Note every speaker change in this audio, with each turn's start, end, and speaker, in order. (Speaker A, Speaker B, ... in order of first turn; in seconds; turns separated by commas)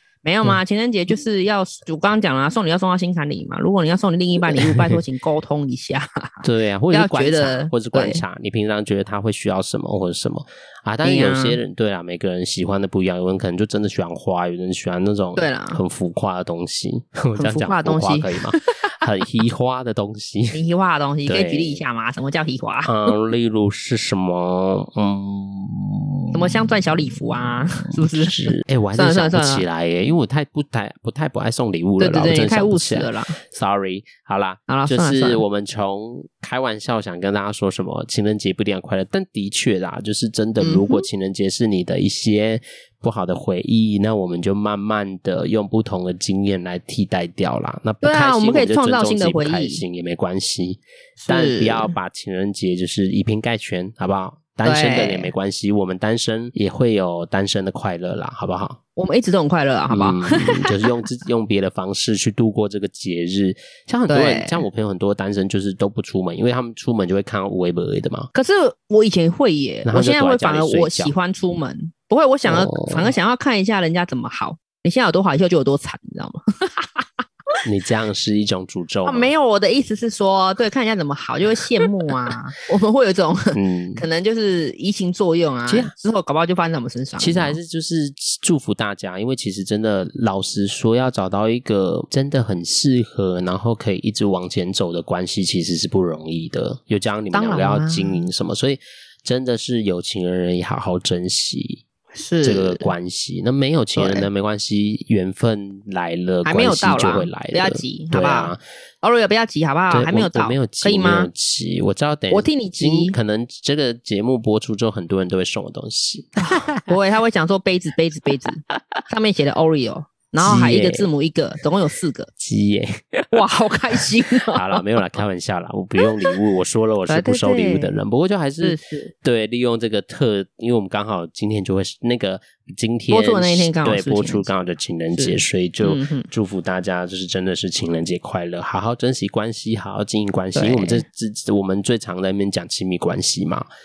Speaker A: 0.2-8.2, Speaker B: 4.5-5.0, Speaker B: 6.4-20.6, Speaker A: 11.0-11.6, Speaker A: 15.4-15.8, Speaker A: 17.4-18.7, Speaker A: 20.5-23.1, Speaker B: 21.3-21.8, Speaker B: 22.8-58.8, Speaker A: 26.3-29.6, Speaker A: 32.0-33.4, Speaker A: 34.7-35.4, Speaker A: 40.6-41.1, Speaker A: 48.0-49.8, Speaker A: 51.2-52.0, Speaker A: 54.6-55.3, Speaker A: 59.0-60.9, Speaker B: 59.9-68.3, Speaker A: 64.1-64.6, Speaker A: 68.3-77.0, Speaker B: 69.8-71.1, Speaker B: 72.5-73.1, Speaker B: 77.6-79.3, Speaker A: 79.1-87.6, Speaker B: 83.5-84.0, Speaker B: 85.7-85.9, Speaker B: 87.2-101.8, Speaker A: 97.3-98.3, Speaker A: 102.1-102.9, Speaker B: 102.4-108.6, Speaker A: 104.0-104.3, Speaker A: 106.4-111.3, Speaker B: 109.9-116.9, Speaker A: 112.3-113.2, Speaker A: 116.4-122.3, Speaker B: 120.4-121.1, Speaker B: 122.4-143.7, Speaker A: 123.3-124.8, Speaker A: 127.1-128.0, Speaker A: 128.6-129.1, Speaker A: 133.1-134.5, Speaker A: 135.1-136.3, Speaker A: 140.6-141.0